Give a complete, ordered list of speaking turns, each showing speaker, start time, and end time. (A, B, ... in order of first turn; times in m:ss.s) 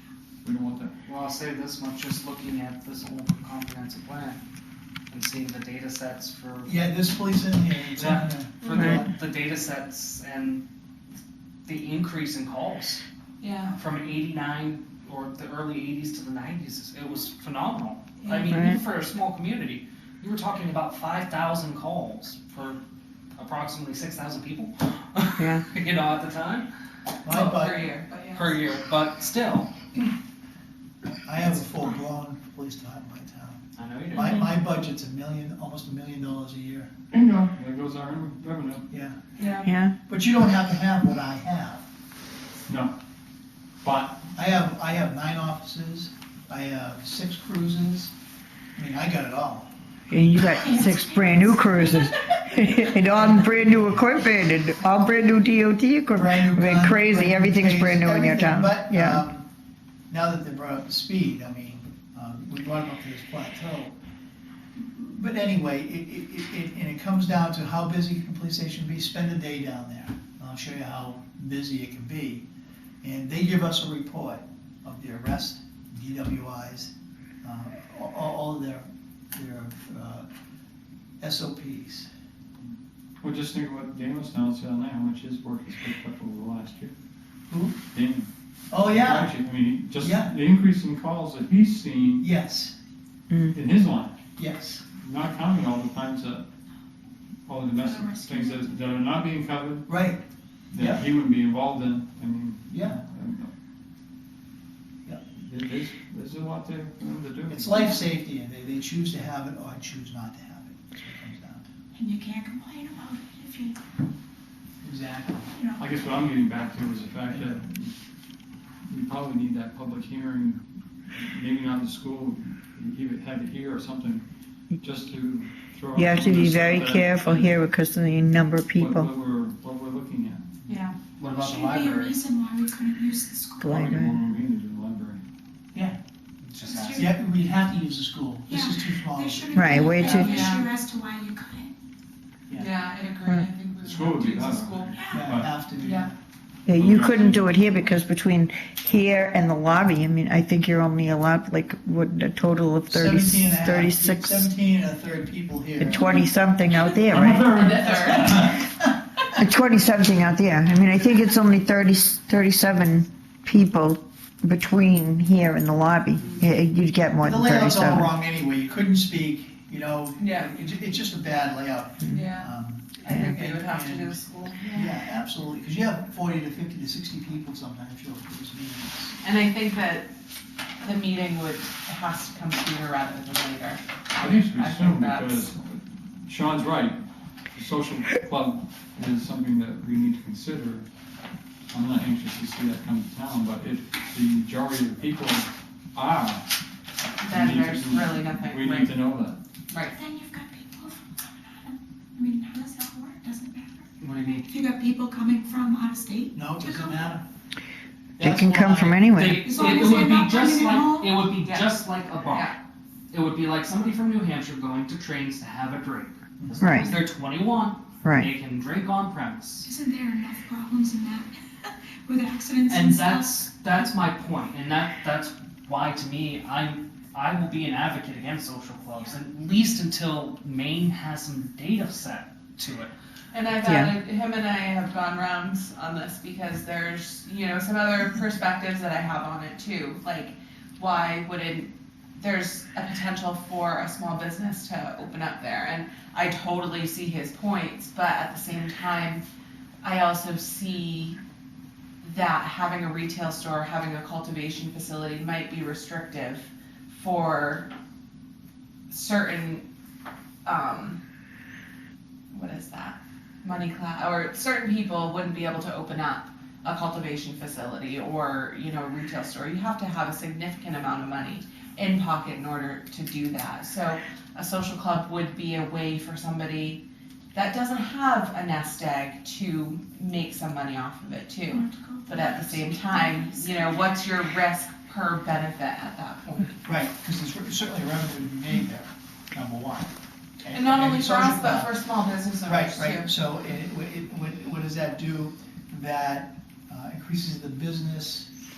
0:00.4-0:00.9 A
0:01.0-0:04.4 B
0:05.1-0:06.7 B
0:06.6-0:09.1 C
0:07.9-0:10.6 B
0:08.7-0:09.0 D
0:11.6-0:13.0 B
0:13.4-0:13.7 E
0:13.7-0:22.8 B
0:18.4-0:18.8 D
0:23.4-0:26.6 B
0:25.4-0:25.6 D
0:27.2-0:27.8 C
0:27.2-0:28.6 E
0:28.3-0:29.7 B
0:31.2-0:33.6 C
0:33.8-0:34.5 B
0:34.1-0:36.9 C
0:37.2-0:37.5 E
0:37.5-0:38.9 A
0:38.9-0:39.2 C
0:39.4-0:39.7 E
0:39.6-0:40.0 D
0:40.0-0:41.8 C
0:42.7-0:42.9 A
0:43.8-0:44.2 A
0:44.4-0:48.1 C
0:48.8-0:49.7 C
0:50.1-0:59.2 D
0:50.4-0:52.2 F
0:53.1-0:54.0 C
0:56.1-0:59.4 C
1:00.1-1:03.9 C
1:04.9-1:12.4 C
1:13.0-1:16.9 C
1:17.4-1:20.2 C
1:21.2-1:22.1 C
1:22.6-1:26.9 A
1:27.5-1:27.8 C
1:27.9-1:32.3 A
1:28.7-1:29.4 C
1:30.0-1:30.3 C
1:32.2-1:32.7 C
1:33.3-1:33.5 D
1:33.5-1:34.1 A
1:34.4-1:34.8 C
1:34.9-1:36.4 A
1:37.5-1:40.0 A
1:37.8-1:38.7 F
1:39.9-1:40.2 C
1:40.7-1:43.5 A
1:40.7-1:41.0 C
1:42.7-1:43.0 C
1:45.4-1:47.8 A
1:47.5-1:51.7 C
1:47.7-1:48.0 F
1:52.0-1:53.8 F
1:54.8-1:55.5 C
1:55.5-1:55.9 F
1:55.8-1:57.9 A
1:57.3-1:57.6 C
1:58.9-2:00.6 A
2:01.1-2:04.2 A
2:04.8-2:07.6 A
2:05.9-2:09.1 D
2:08.8-2:10.6 A
2:10.7-2:10.9 E
2:11.2-2:12.2 B
2:11.3-2:13.7 F
2:13.6-2:14.2 D
2:13.6-2:15.2 A
2:16.4-2:17.1 B
2:16.6-2:17.1 F
2:16.9-2:20.6 C
2:18.5-2:21.7 F
2:19.5-2:20.4 D
2:20.0-2:20.7 E
2:22.6-2:25.0 E
2:23.8-2:25.5 A
2:24.9-2:25.4 F
2:25.1-2:26.1 C
2:25.8-2:26.1 E
2:26.6-2:34.5 D
2:26.7-2:27.5 A
2:32.9-2:36.1 C
2:35.8-2:37.6 D
2:36.8-2:38.5 E
2:37.1-2:38.9 C
2:39.4-2:48.1 D
2:47.2-2:54.2 C
2:50.2-2:50.5 E
2:52.1-2:55.0 E
2:53.1-2:53.3 D
2:54.7-2:59.2 C
2:59.2-3:00.1 E
3:00.8-3:05.5 E
3:04.2-3:07.0 A
3:07.5-3:10.8 A
3:11.7-3:16.4 A
3:17.2-3:18.9 E
3:17.2-3:19.4 A
3:19.7-3:20.0 E
3:19.9-3:23.9 F
3:24.0-3:24.5 B
3:24.4-3:27.1 F
3:26.3-3:27.2 C
3:28.2-3:29.2 C
3:28.2-3:29.5 D
3:29.1-3:32.5 B
3:29.3-3:31.2 F
3:31.4-3:32.6 E
3:33.1-3:39.7 B
3:36.4-3:36.9 C
3:36.6-3:36.9 D
3:38.0-3:38.3 D
3:39.6-3:43.8 F
3:42.7-3:52.9 B
3:53.3-4:09.2 E
3:53.6-3:53.9 D
4:09.8-4:11.2 E
4:12.0-4:17.7 E
4:18.9-4:19.6 E
4:20.4-4:21.0 E
4:22.3-4:36.8 E
4:37.3-4:46.6 E
4:41.5-4:44.0 F
4:46.6-4:51.8 C
4:50.5-4:53.2 E
4:52.4-4:58.3 C